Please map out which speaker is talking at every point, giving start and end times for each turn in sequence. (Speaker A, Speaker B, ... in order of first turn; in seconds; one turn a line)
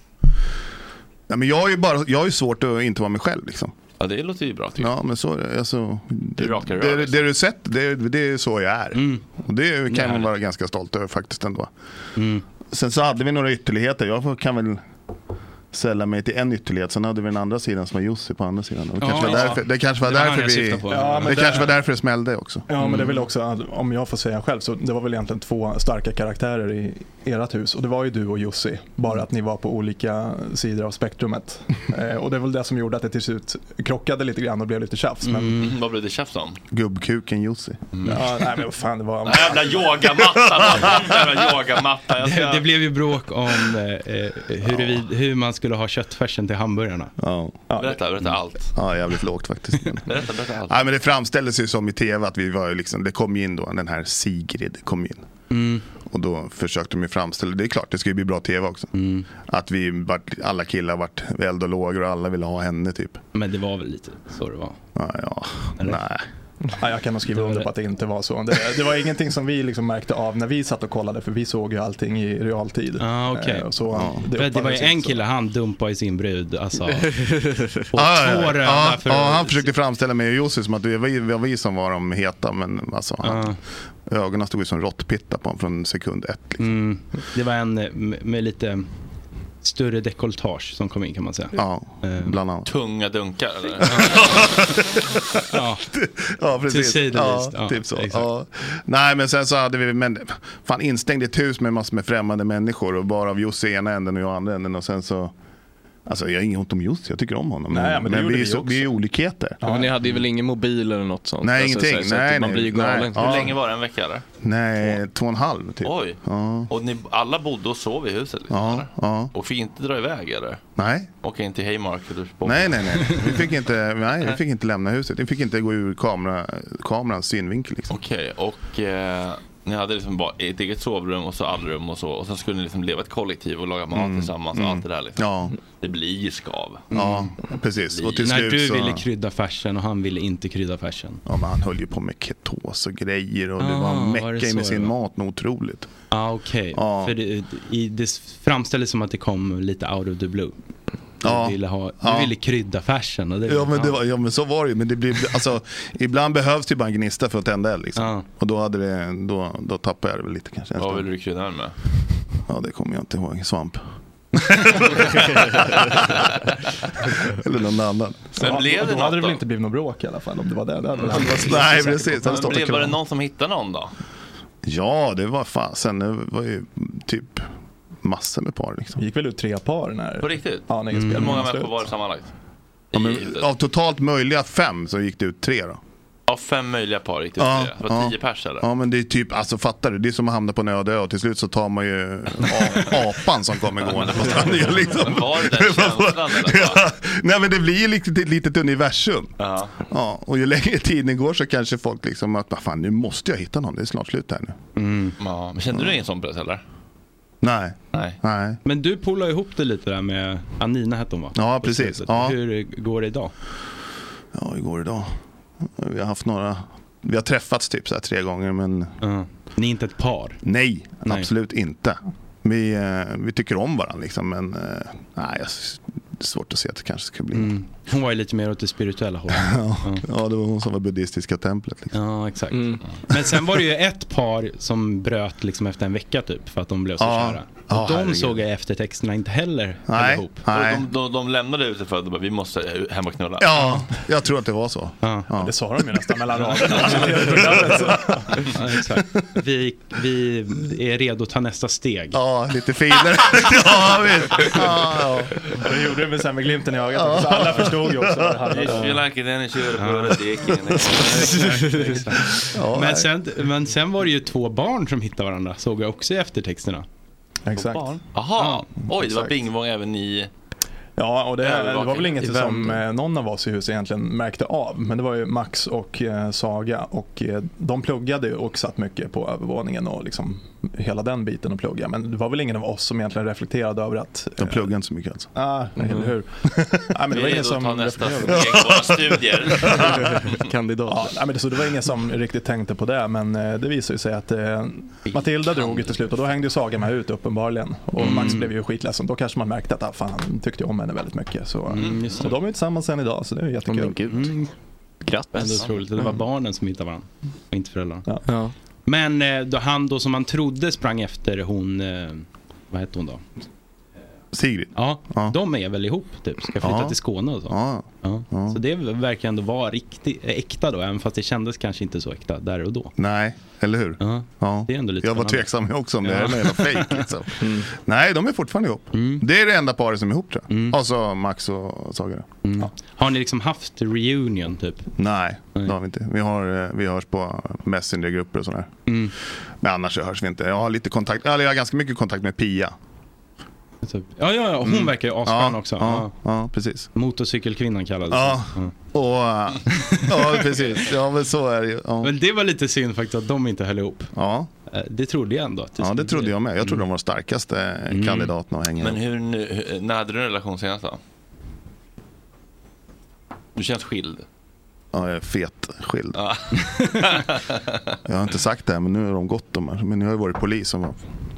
Speaker A: 1.3-3.7
Speaker B: 4.0-4.9
Speaker A: 4.8-11.7
Speaker B: 6.4-7.3
Speaker C: 8.9-9.2
Speaker C: 9.9-10.3
Speaker C: 12.2-12.4
Speaker A: 12.7-14.8
Speaker A: 15.7-22.7
Speaker C: 19.0-21.7
Speaker D: 20.9-21.7
Speaker D: 22.7-35.6
Speaker C: 22.8-23.1
Speaker C: 35.2-35.7
Speaker B: 35.5-36.6
Speaker A: 36.7-37.8
Speaker B: 37.9-38.4
Speaker D: 38.0-40.0
Speaker B: 39.2-42.7
Speaker A: 40.2-41.1
Speaker C: 42.2-47.1
Speaker A: 47.2-47.6
Speaker B: 47.7-48.7
Speaker A: 48.7-55.3
Speaker B: 50.1-50.8
Speaker C: 55.5-55.9
Speaker A: 56.1-58.9
Speaker C: 59.0-59.3
Speaker A: 59.5-63.2
Speaker C: 63.3-64.8
Speaker A: 65.0-66.2
Speaker D: 66.8-75.2
Speaker C: 67.3-67.7
Speaker C: 73.0-77.2
Speaker E: 77.5-77.8
Speaker C: 77.9-79.7
Speaker A: 78.0-83.6
Speaker C: 83.2-83.6
Speaker A: 84.1-86.8
Speaker C: 86.6-88.9
Speaker C: 89.6-92.4
Speaker A: 91.5-92.7
Speaker B: 92.7-94.2
Speaker A: 93.8-95.0
Speaker C: 93.9-94.2
Speaker C: 95.5-95.9
Speaker A: 95.9-105.3
Speaker C: 96.7-98.3
Speaker A: 106.1-109.6
Speaker D: 107.7-108.8
Speaker D: 109.6-109.9
Speaker E: 109.6-113.4
Speaker A: 111.4-113.6
Speaker B: 113.2-114.2
Speaker A: 114.4-116.7
Speaker B: 115.8-120.6
Speaker A: 118.5-119.3
Speaker A: 120.8-121.1
Speaker B: 121.2-123.3
Speaker A: 122.5-128.0
Speaker B: 127.9-135.3
Speaker A: 133.9-135.6
Speaker B: 135.8-136.9
Speaker C: 136.9-137.3
Speaker A: 136.9-139.1
Speaker B: 137.9-138.2
Speaker C: 138.2-141.2
Speaker A: 141.3-145.9
Speaker C: 143.6-144.9
Speaker C: 146.1-150.5
Speaker A: 146.7-147.2
Speaker A: 151.2-152.3
Speaker C: 151.2-154.0
Speaker A: 153.5-161.1
Speaker C: 158.0-158.3
Speaker B: 160.8-161.8
Speaker A: 162.5-163.8
Speaker A: 164.4-166.1
Speaker A: 167.3-168.3
Speaker B: 168.4-169.4
Speaker D: 168.4-172.1
Speaker B: 171.0-171.5
Speaker A: 171.1-173.0
Speaker B: 172.1-173.9
Speaker A: 174.7-177.5
Speaker A: 178.0-179.0
Speaker D: 179.0-181.8
Speaker B: 180.2-182.3
Speaker C: 180.9-181.4
Speaker B: 182.9-183.5
Speaker A: 182.9-185.8
Speaker B: 186.3-188.7
Speaker A: 187.4-199.3
Speaker B: 193.8-196.8
Speaker B: 199.4-199.8
Speaker A: 199.9-204.6
Speaker C: 204.8-205.2
Speaker B: 205.2-206.6
Speaker A: 207.4-208.6
Speaker C: 208.7-213.3
Speaker A: 211.3-212.4
Speaker A: 214.3-218.9
Speaker C: 219.0-220.4
Speaker A: 220.4-227.6
Speaker C: 221.1-221.3
Speaker C: 227.3-230.1
Speaker A: 229.3-231.9
Speaker C: 231.9-240.4
Speaker E: 232.5-232.8
Speaker A: 237.0-238.4
Speaker A: 239.9-240.8
Speaker B: 240.5-243.5
Speaker A: 243.4-245.5
Speaker C: 243.6-243.9
Speaker C: 245.0-245.3
Speaker D: 245.4-248.2
Speaker A: 247.3-248.0
Speaker C: 248.5-252.2
Speaker A: 252.1-255.3
Speaker D: 255.6-259.0
Speaker A: 256.9-258.4
Speaker B: 258.5-262.0
Speaker C: 259.8-260.2
Speaker C: 260.9-266.9
Speaker A: 262.5-263.1
Speaker D: 267.5-267.9
Speaker B: 267.5-270.3
Speaker C: 268.4-268.7
Speaker D: 271.0-284.7
Speaker B: 271.4-272.4
Speaker E: 272.4-272.7
Speaker A: 284.4-285.3
Speaker D: 285.3-286.3
Speaker E: 285.8-286.1
Speaker A: 286.6-286.9
Speaker D: 286.9-288.4
Speaker B: 287.1-290.4
Speaker A: 288.3-289.9
Speaker E: 289.8-291.1
Speaker D: 290.9-304.1
Speaker B: 295.1-296.3
Speaker C: 298.0-298.5
Speaker C: 301.7-302.4
Speaker B: 301.7-302.3
Speaker E: 303.6-304.4
Speaker C: 304.1-304.4
Speaker E: 305.0-306.2
Speaker C: 305.4-308.1
Speaker B: 305.4-305.8
Speaker E: 308.3-308.5
Speaker C: 308.9-313.2
Speaker A: 314.3-315.4
Speaker C: 314.8-322.9
Speaker A: 316.6-318.6
Speaker A: 323.0-332.3
Speaker C: 324.0-327.1
Speaker E: 327.4-327.7
Speaker C: 328.9-329.2
Speaker C: 330.5-330.8
Speaker C: 332.4-334.9
Speaker A: 335.0-338.7
Speaker C: 338.9-339.1
Speaker A: 339.6-342.7
Speaker C: 343.8-346.1
Speaker A: 344.6-346.9
Speaker C: 346.9-348.7
Speaker A: 348.1-352.1
Speaker C: 349.7-350.6
Speaker C: 352.0-354.1
Speaker A: 354.1-354.5
Speaker C: 354.7-356.8
Speaker A: 355.8-359.0
Speaker C: 357.9-358.3
Speaker B: 358.8-361.0
Speaker B: 363.6-364.2
Speaker A: 364.9-366.2
Speaker B: 366.2-367.8
Speaker A: 368.1-371.1